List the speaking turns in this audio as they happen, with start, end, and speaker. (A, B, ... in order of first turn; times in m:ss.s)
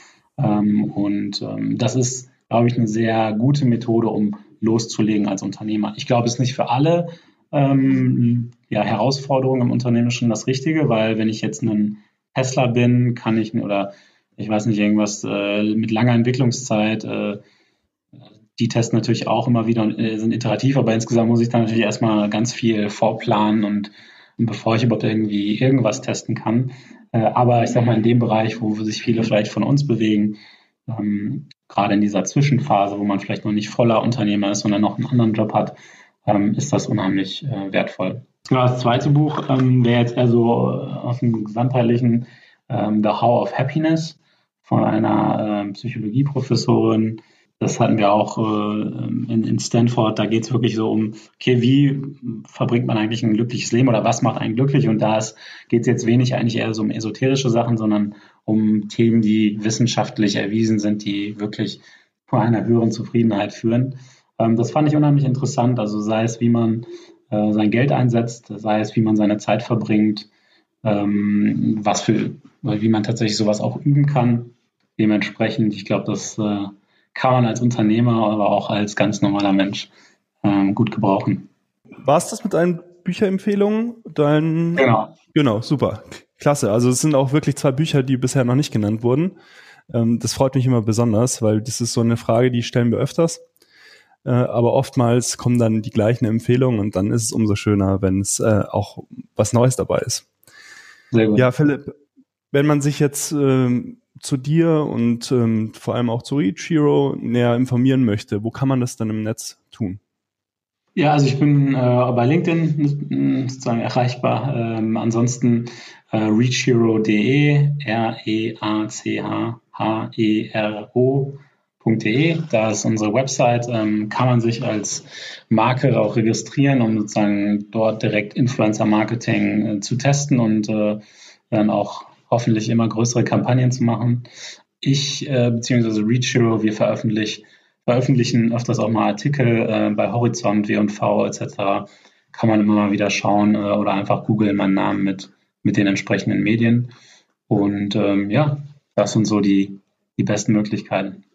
0:00.4-0:17.4 A
0:18.6-1:10.3 A
1:10.8-1:19.9 A
1:20.4-1:21.5 A
1:22.0-1:29.4 B
1:24.8-1:25.1 A
1:29.9-1:33.4 B
1:34.2-1:40.2 B
1:41.1-1:41.4 A
1:41.4-1:42.0 B
1:42.5-1:50.0 B
1:51.0-2:14.2 A
2:14.8-2:26.9 A
2:27.5-2:31.2 A